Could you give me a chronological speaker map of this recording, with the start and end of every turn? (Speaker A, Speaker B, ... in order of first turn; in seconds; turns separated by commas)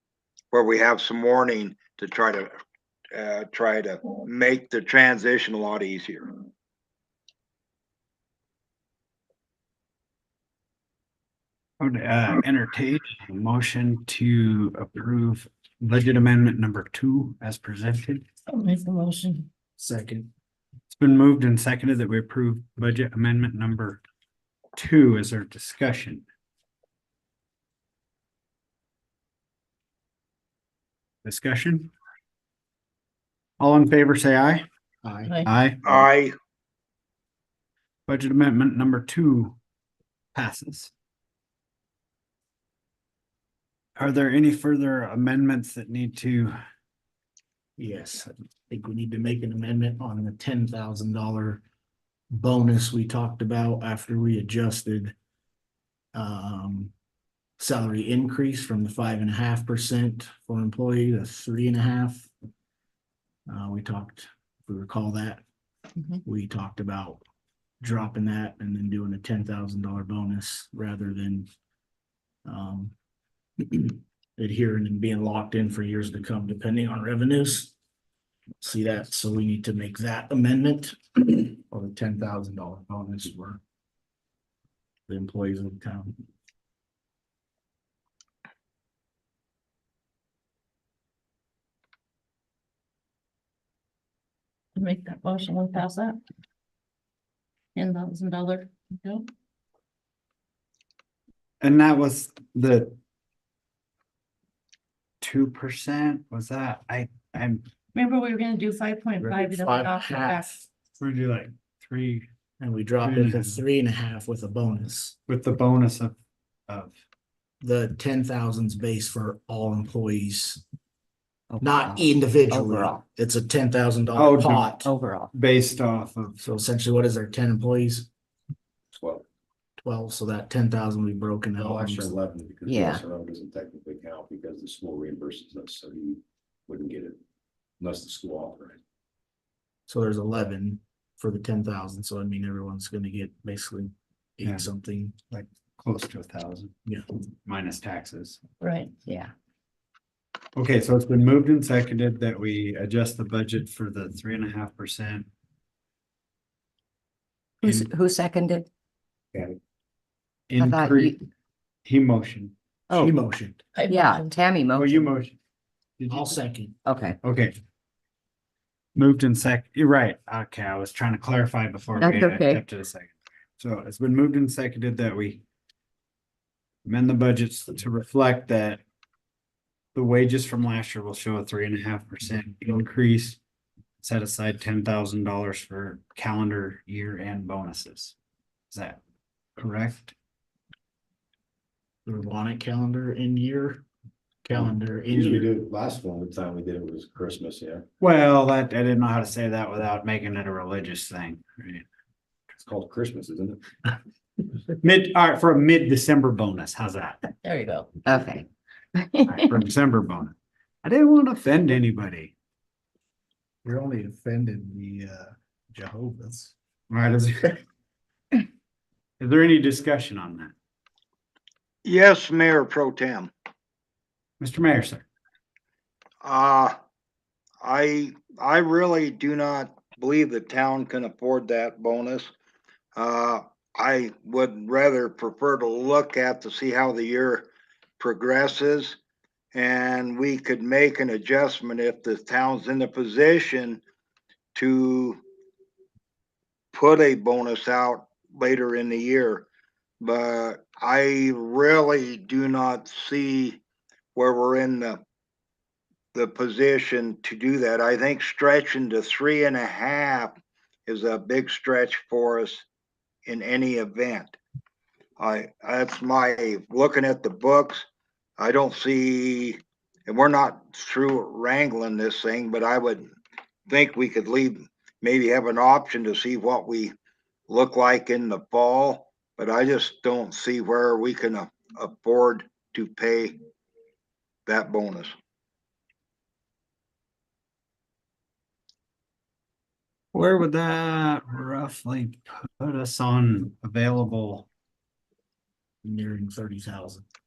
Speaker A: 0.5-2.5, Speaker A: 3.1-6.3, Speaker B: 11.8-18.2, Speaker C: 18.5-19.5, Speaker D: 19.8-20.3, Speaker B: 20.9-24.0, Speaker B: 24.8-26.2, Speaker B: 31.2-31.9, Speaker B: 33.6-34.7, Speaker D: 35.0-35.3, Speaker B: 35.4-36.0, Speaker A: 35.9-36.3, Speaker B: 38.1-39.5, Speaker B: 40.3-40.9, Speaker B: 44.0-46.5, Speaker D: 47.8-51.6, Speaker D: 52.3-55.1, Speaker D: 56.1-56.9, Speaker D: 57.6-62.3, Speaker D: 63.5-65.4, Speaker D: 66.2-67.2, Speaker D: 67.8-71.5, Speaker D: 72.5-72.9, Speaker D: 73.6-77.7, Speaker D: 78.6-83.6, Speaker D: 85.1-86.2, Speaker C: 94.8-96.2, Speaker C: 97.8-99.3, Speaker B: 101.6-103.0, Speaker B: 105.2-107.7, Speaker C: 107.9-110.6, Speaker D: 109.2-110.5, Speaker B: 111.0-112.3, Speaker D: 112.6-115.2, Speaker B: 113.0-113.6, Speaker B: 115.3-116.2, Speaker B: 116.7-116.9, Speaker D: 117.6-120.6, Speaker E: 121.5-123.0, Speaker D: 121.6-124.9, Speaker B: 124.2-124.7, Speaker E: 124.8-125.3, Speaker B: 125.3-126.4, Speaker D: 126.4-128.1, Speaker F: 128.9-129.2, Speaker D: 129.8-132.2, Speaker F: 131.6-137.2, Speaker E: 132.7-133.0, Speaker F: 137.8-138.8, Speaker D: 139.9-145.1, Speaker B: 145.3-146.7, Speaker B: 147.4-148.4, Speaker C: 148.6-148.9, Speaker E: 149.1-149.3, Speaker B: 150.6-155.3, Speaker E: 157.6-158.7, Speaker B: 157.6-157.9, Speaker B: 160.5-161.1, Speaker E: 160.6-161.2, Speaker B: 161.8-162.5, Speaker E: 162.9-163.1, Speaker D: 162.9-163.6, Speaker C: 163.7-164.3, Speaker E: 163.9-165.1, Speaker B: 164.7-165.3, Speaker B: 166.0-166.3, Speaker D: 166.1-166.8, Speaker E: 166.8-167.2, Speaker B: 167.2-167.6, Speaker B: 168.9-175.4, Speaker E: 172.0-172.6, Speaker B: 176.8-178.8, Speaker B: 179.9-183.4, Speaker B: 184.0-188.1, Speaker B: 188.7-189.0, Speaker B: 189.6-190.1, Speaker D: 192.1-193.8, Speaker D: 194.4-195.5, Speaker F: 194.5-197.8, Speaker B: 198.0-201.8, Speaker F: 202.5-203.6, Speaker B: 204.7-207.2, Speaker C: 207.4-207.9, Speaker E: 208.1-209.4, Speaker B: 209.2-212.3, Speaker D: 213.6-216.5, Speaker B: 216.9-217.6, Speaker B: 219.2-220.5, Speaker A: 221.8-223.3, Speaker B: 224.4-225.0, Speaker A: 226.2-226.8, Speaker A: 227.6-232.3, Speaker A: 232.9-239.0, Speaker A: 239.5-243.8, Speaker A: 244.5-245.2, Speaker A: 246.7-249.4, Speaker A: 250.0-253.6, Speaker A: 254.1-255.0, Speaker A: 256.1-260.3, Speaker A: 260.9-262.6, Speaker A: 263.2-264.4, Speaker A: 265.2-267.9, Speaker A: 268.4-273.1, Speaker A: 273.7-276.9, Speaker A: 277.5-283.4, Speaker A: 284.4-285.1, Speaker B: 290.1-294.4, Speaker D: 295.8-297.0